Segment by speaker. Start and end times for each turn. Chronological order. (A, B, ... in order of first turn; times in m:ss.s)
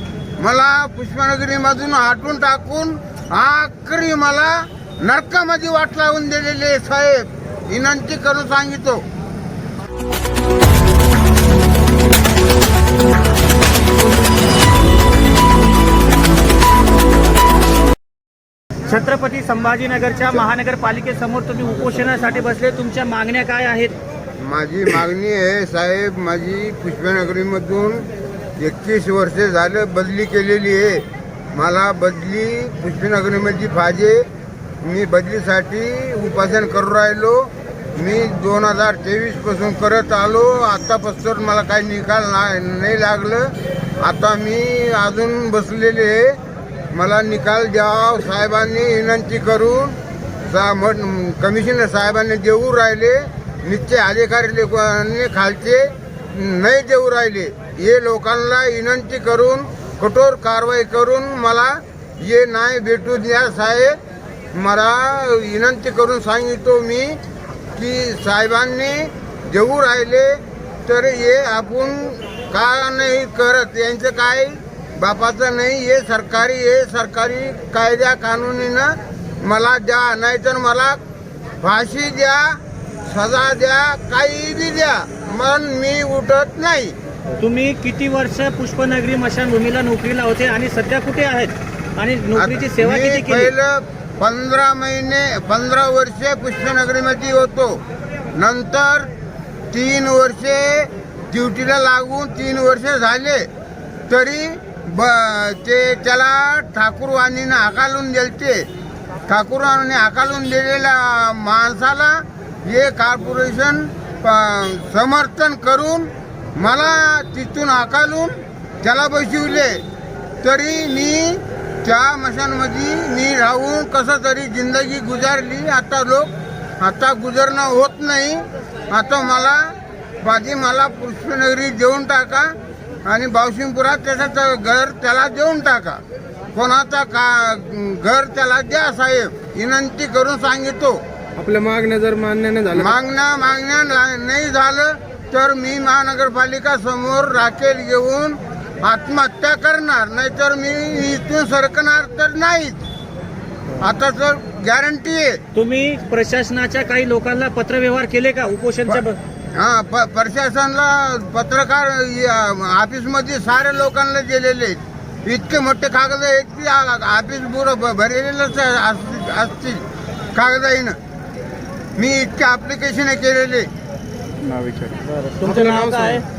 0:00.4-0:09.0 A
0:18.8-0:23.9 B
0:24.4-0:34.2 A
0:34.8-0:46.4 A
0:46.9-0:50.0 A
0:50.5-1:04.0 A
1:04.5-1:07.2 A
1:07.8-1:21.0 A
1:21.6-1:26.9 A
1:27.4-1:33.5 B
1:32.4-1:37.8 A
1:38.4-1:39.1 A
1:39.7-1:43.5 A
1:44.1-1:48.6 A
1:49.3-1:59.8 A
2:00.4-2:12.5 A
2:13.0-2:16.0 A
2:16.5-2:21.0 A
2:21.4-2:23.0 C
2:22.7-2:32.8 A
2:33.8-2:35.4 A
2:35.5-2:39.2 B
2:39.6-2:51.0 A
2:52.0-2:53.7 A
2:54.4-2:56.2 C
2:55.0-2:56.2 B